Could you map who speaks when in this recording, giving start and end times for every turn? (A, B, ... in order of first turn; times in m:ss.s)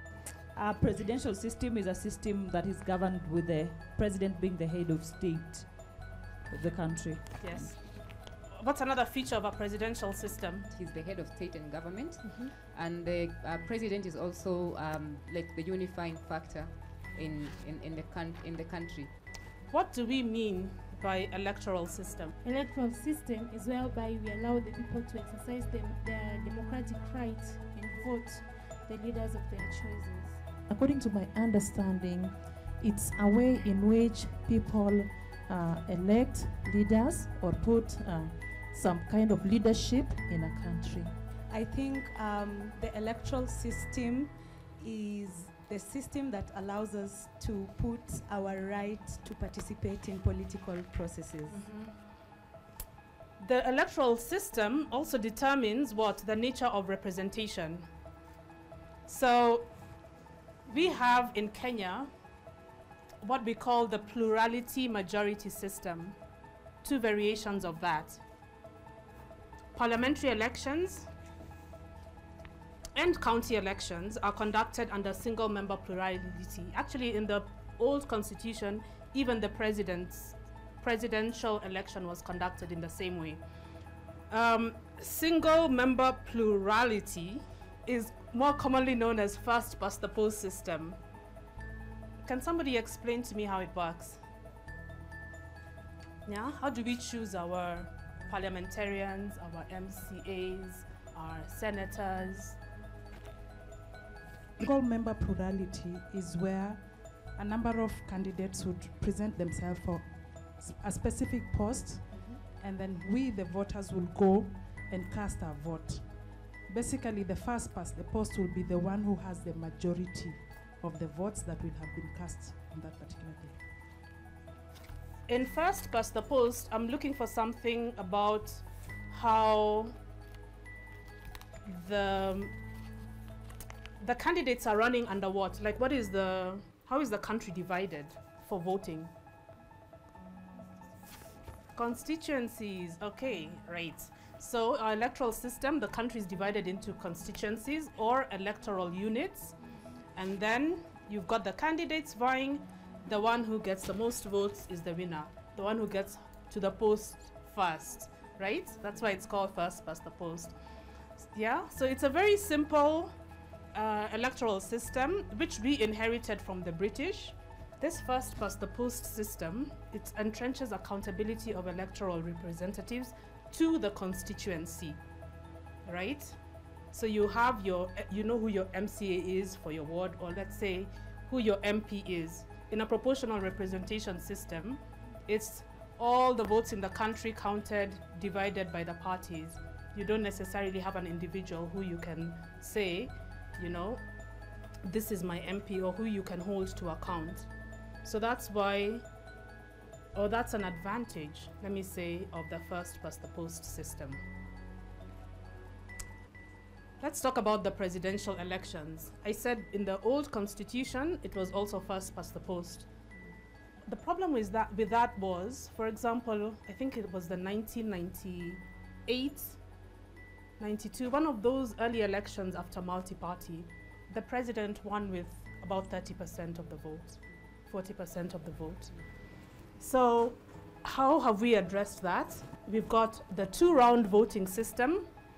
0:00.6-0:07.7 A
0:07.4-0:07.8 B
0:08.5-0:10.7 B
0:10.7-0:19.1 C
0:12.2-0:12.5 B
0:19.7-0:22.3 B
0:22.4-0:30.4 D
0:30.7-0:41.8 E
0:42.3-0:43.0 F
0:42.4-0:44.1 E
0:44.8-0:51.6 F
0:45.3-0:49.2 E
0:51.5-0:51.9 B
0:53.4-0:57.9 B
0:59.1-0:59.7 B
1:00.7-1:02.1 B
1:03.2-1:06.2 B
1:06.8-1:08.2 B
1:09.8-1:11.1 B
1:13.0-1:23.4 B
1:24.3-1:31.0 B
1:32.2-1:34.2 B
1:36.3-1:42.6 B
1:44.6-2:03.6 G
2:05.3-2:09.9 B
2:11.7-2:12.5 B
2:14.0-2:19.1 B
2:21.8-2:29.6 B
2:30.2-2:40.5 B
2:41.2-2:43.1 B
2:43.7-2:55.0 B
2:55.9-2:56.4 B
2:56.9-3:14.0 B
3:14.8-3:17.5 B
3:18.0-3:19.0 B
3:20.1-3:24.2 B
3:27.0-3:32.9 B
3:33.9-3:39.6 B
3:40.6-3:49.0 B
3:49.8-3:55.1 B